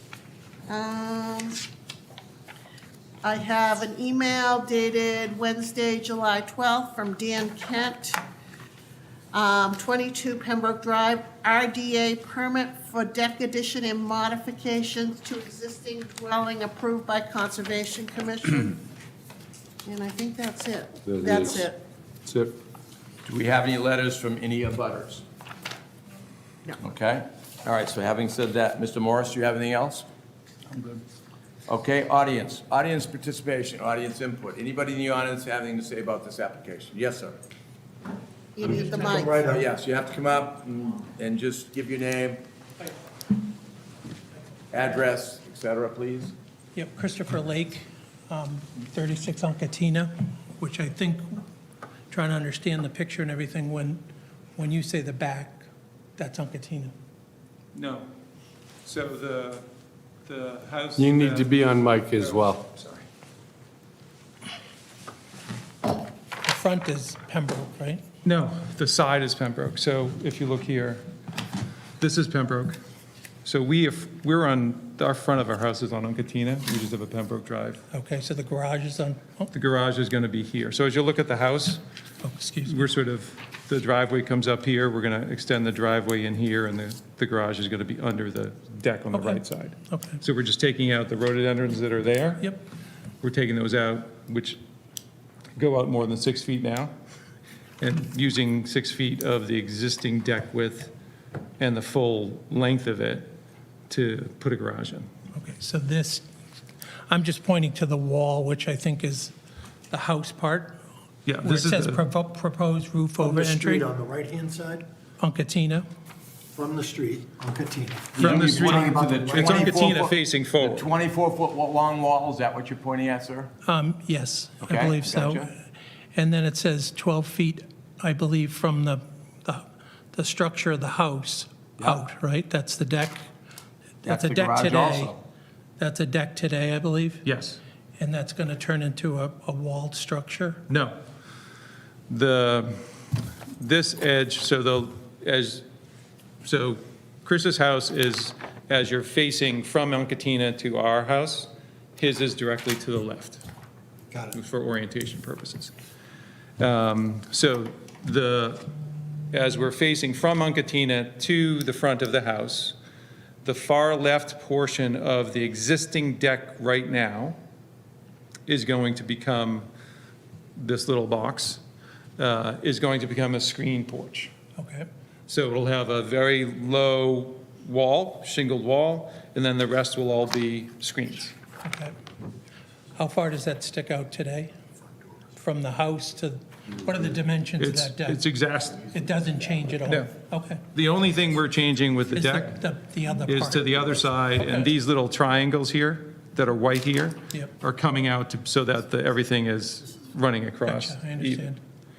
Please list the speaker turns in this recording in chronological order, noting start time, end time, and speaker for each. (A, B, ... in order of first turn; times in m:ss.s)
0:00.7-0:01.6 A
0:03.2-0:08.2 A
0:09.3-0:18.8 A
0:19.8-0:21.8 A
0:21.0-0:21.6 B
0:22.2-0:22.5 B
0:23.2-0:25.2 C
0:26.8-0:30.0 C
0:31.7-0:37.4 C
0:38.5-0:39.4 A
0:38.6-0:39.6 D
0:39.5-0:42.4 C
0:44.7-0:46.3 C
0:46.7-0:51.4 E
0:52.1-0:54.0 E
0:54.6-0:56.9 E
0:57.7-0:58.1 F
0:58.8-0:59.6 F
1:00.2-1:01.6 F
1:01.0-1:02.6 B
1:02.2-1:03.0 F
1:06.4-1:08.0 E
1:08.2-1:11.0 F
1:12.0-1:12.8 F
1:13.4-1:17.8 F
1:17.9-1:19.5 E
1:19.5-1:21.8 F
1:22.2-1:22.9 E
1:22.6-1:32.5 F
1:29.1-1:30.2 E
1:33.2-1:34.6 F
1:35.6-1:36.9 F
1:37.8-1:40.9 F
1:41.6-1:43.3 F
1:43.9-1:45.1 F
1:45.3-1:46.2 E
1:47.1-1:49.3 E
1:49.9-1:50.7 E
1:51.2-1:52.0 F
1:51.4-1:53.8 E
1:53.2-1:54.8 D
1:55.2-1:55.8 E
1:56.5-1:59.8 D
1:58.1-2:03.5 C
1:58.2-2:00.9 F
2:03.6-2:05.5 E
2:04.6-2:05.5 C
2:06.1-2:13.2 E
2:14.0-2:15.2 E
2:14.0-2:15.2 C
2:15.8-2:17.2 E
2:17.2-2:17.6 F
2:18.0-2:20.6 E
2:20.7-2:21.0 F
2:22.1-2:22.8 F
2:23.6-2:25.6 F
2:26.4-2:33.4 F
2:34.1-2:34.4 D
2:34.3-2:35.7 F
2:36.6-2:38.7 F
2:39.3-2:42.7 F
2:43.4-2:47.4 F
2:48.5-2:49.6 F
2:50.6-2:51.6 F
2:52.2-2:54.3 F
2:54.6-2:54.9 E
2:55.3-3:01.3 F
3:01.6-3:01.9 E
3:02.9-3:04.5 E
3:05.3-3:08.2 E
3:07.6-3:08.8 F
3:08.8-3:10.6 E
3:10.7-3:12.6 F
3:12.1-3:14.5 E
3:13.3-3:21.4 F
3:20.6-3:21.6 E